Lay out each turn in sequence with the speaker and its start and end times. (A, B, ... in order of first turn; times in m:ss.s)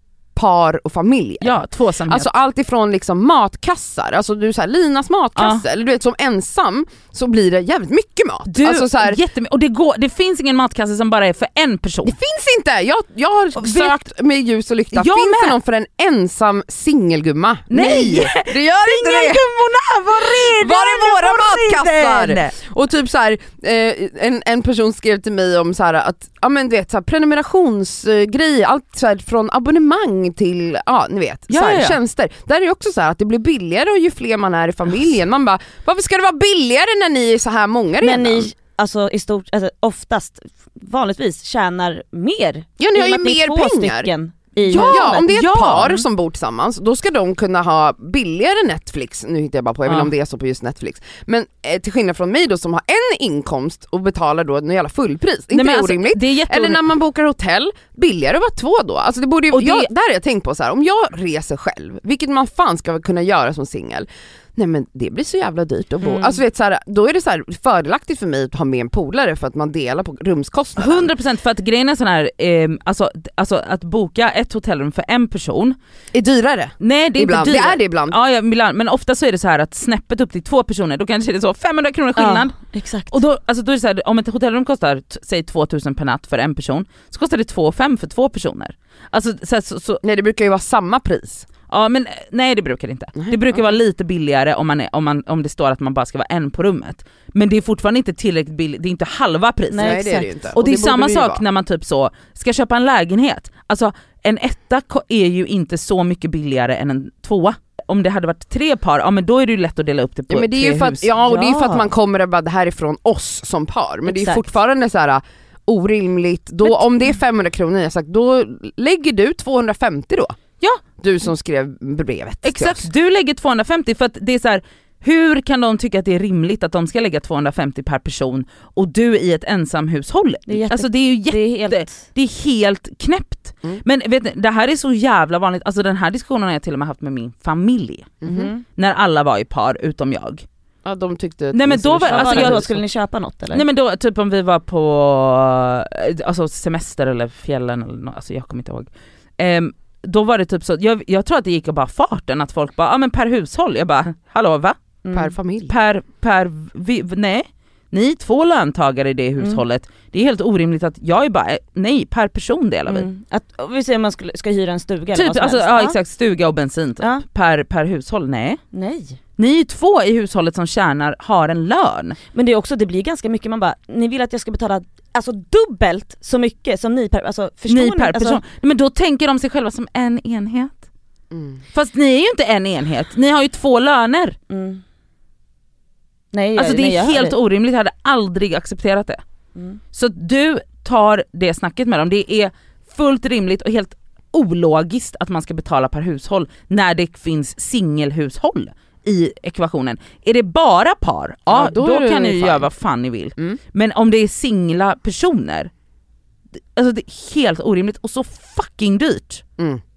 0:00.4-0:09.2 A
0:01.4-0:02.3 B
0:05.4-0:05.6 B
0:08.5-0:12.2 B
0:12.0-0:19.4 A
0:13.6-0:14.0 B
0:14.9-0:15.6 B
0:17.7-0:22.6 B
0:20.3-0:38.5 A
0:31.5-0:32.0 B
0:38.0-0:45.3 C
0:42.8-0:44.1 A
0:44.6-0:46.0 B
0:44.7-1:11.1 A
0:49.9-0:50.1 B
0:55.5-0:56.9 B
0:59.5-0:59.9 B
1:06.0-1:06.4 C
1:10.8-1:15.8 B
1:16.1-1:18.2 A
1:16.8-1:22.6 B
1:22.2-1:23.2 C
1:23.1-1:30.0 B
1:30.0-1:31.5 A
1:31.7-1:51.1 B
1:33.2-1:33.6 A
1:39.7-1:40.3 C
1:39.8-1:41.4 A
1:50.3-2:00.4 A
1:51.2-1:51.9 C
1:54.1-1:54.5 C
2:01.0-2:02.9 A
2:02.4-2:20.4 B
2:10.5-2:12.1 C
2:18.2-2:18.5 A
2:18.3-2:18.6 C
2:20.8-2:22.8 A
2:21.5-2:22.8 B
2:22.1-2:23.6 C
2:23.5-2:34.8 B
2:35.0-2:35.3 C
2:35.1-2:35.7 A
2:35.7-2:43.1 B
2:42.9-2:46.0 C
2:45.1-2:48.6 B
2:48.7-2:49.2 C
2:49.4-2:52.2 B
2:52.3-2:58.4 C
2:57.7-3:00.8 B
3:01.3-3:01.6 A
3:01.7-3:04.4 B
3:04.5-3:04.8 C
3:06.3-3:07.4 C
3:06.6-3:09.2 B
3:09.9-3:25.7 B
3:21.5-3:22.7 A
3:26.8-3:29.4 B